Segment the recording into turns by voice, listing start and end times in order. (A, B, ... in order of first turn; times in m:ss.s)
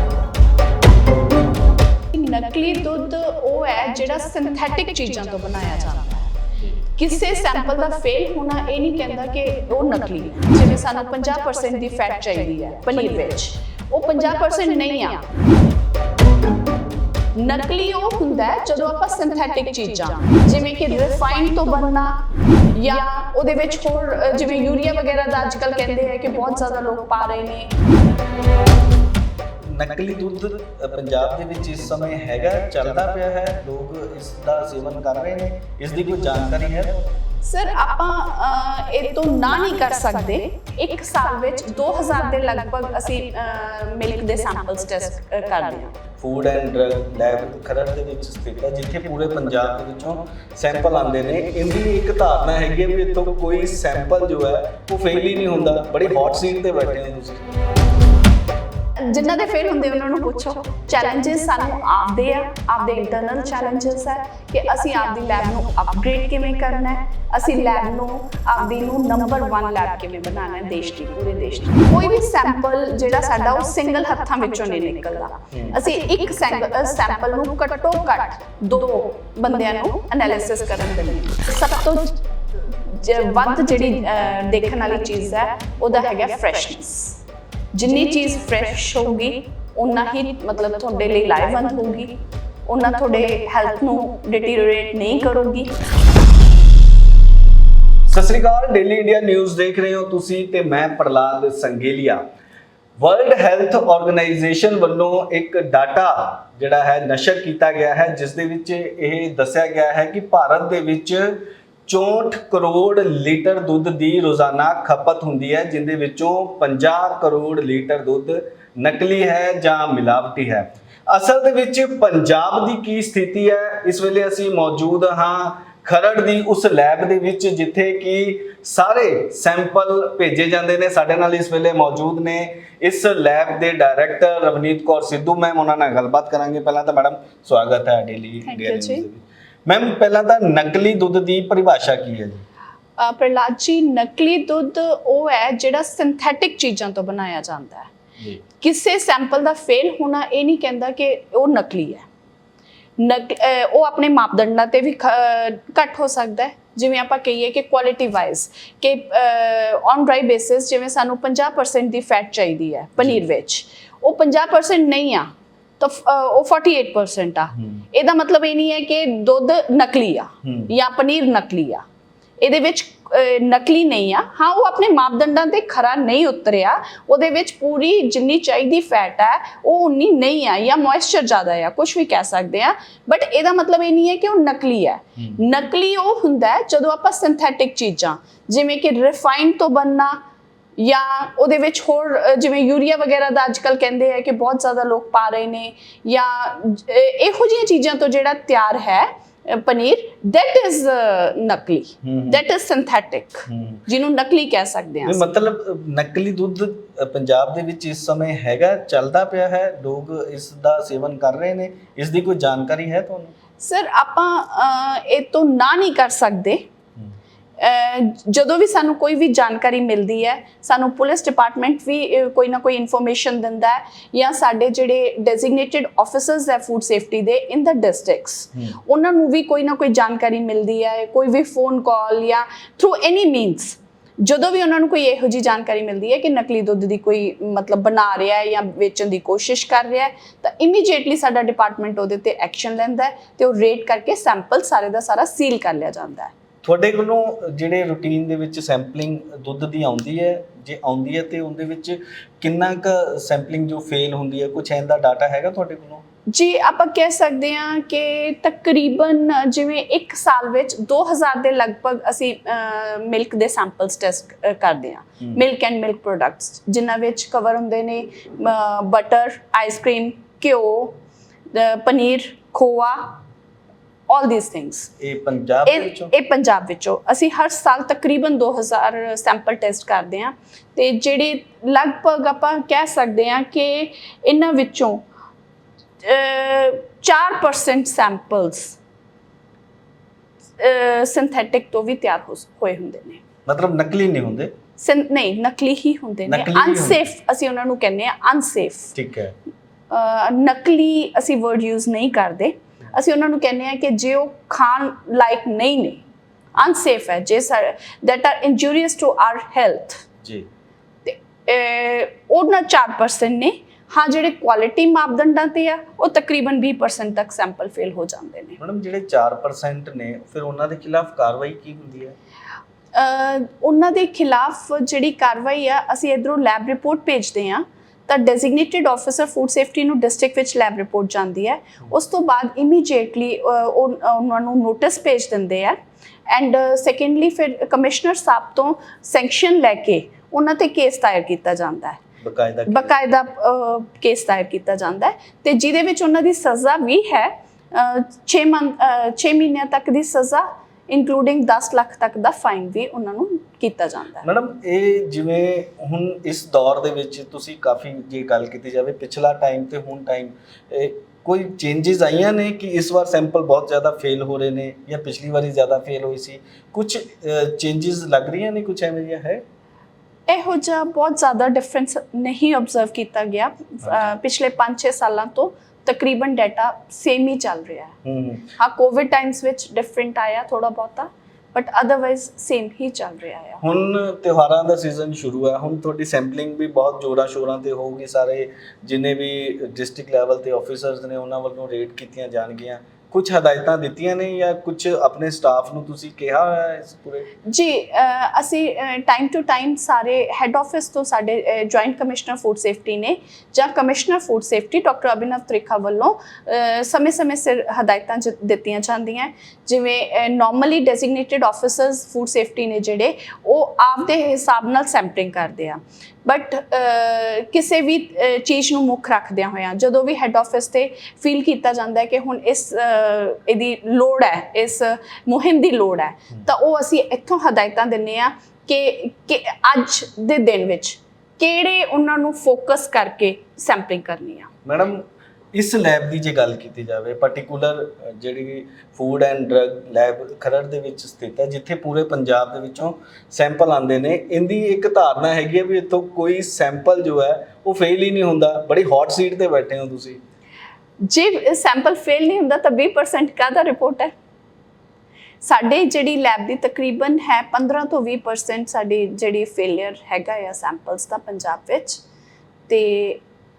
0:02.1-0:06.4 A
0:06.9-0:15.3 A
0:17.3-0:27.8 A
0:29.7-0:37.1 B
0:37.4-0:46.0 A
0:46.2-0:57.4 B
0:59.0-1:27.2 A
1:27.7-1:35.8 A
1:38.1-1:42.2 B
1:43.0-2:22.4 B
2:18.4-2:19.0 A
2:23.0-2:27.9 A
2:28.6-2:32.0 A
2:33.0-2:51.8 A
2:43.0-2:43.2 B
2:50.4-2:50.7 B
2:52.4-3:10.2 A
3:10.8-3:25.3 A
3:22.0-3:22.4 B
3:23.5-3:23.8 B
3:25.0-3:33.3 B
3:33.6-3:36.6 A
3:37.6-4:06.3 A
4:06.6-4:16.0 B
4:16.3-4:31.0 A
4:31.5-4:33.2 A
4:34.1-4:34.9 A
4:35.0-4:36.1 B
4:35.6-4:45.0 A
4:46.0-4:48.8 A
4:50.6-4:53.2 A
4:53.4-4:54.5 B
4:54.8-4:58.9 A
4:56.3-4:57.0 B
4:58.9-4:59.3 B
4:59.9-5:06.0 A
5:06.5-5:10.0 A
5:11.0-5:18.6 A
5:18.6-5:22.2 B
5:22.9-5:35.8 A
5:36.3-5:42.0 A
5:42.2-5:43.0 B
5:42.7-5:54.2 A
5:54.2-6:09.4 B
6:10.3-6:17.9 A
6:18.0-6:18.5 B
6:18.6-6:23.6 A
6:23.6-6:37.3 B
6:37.4-7:14.5 A
7:14.6-7:30.2 B
7:31.0-7:34.1 A
7:35.4-7:42.0 A
7:42.7-7:43.2 A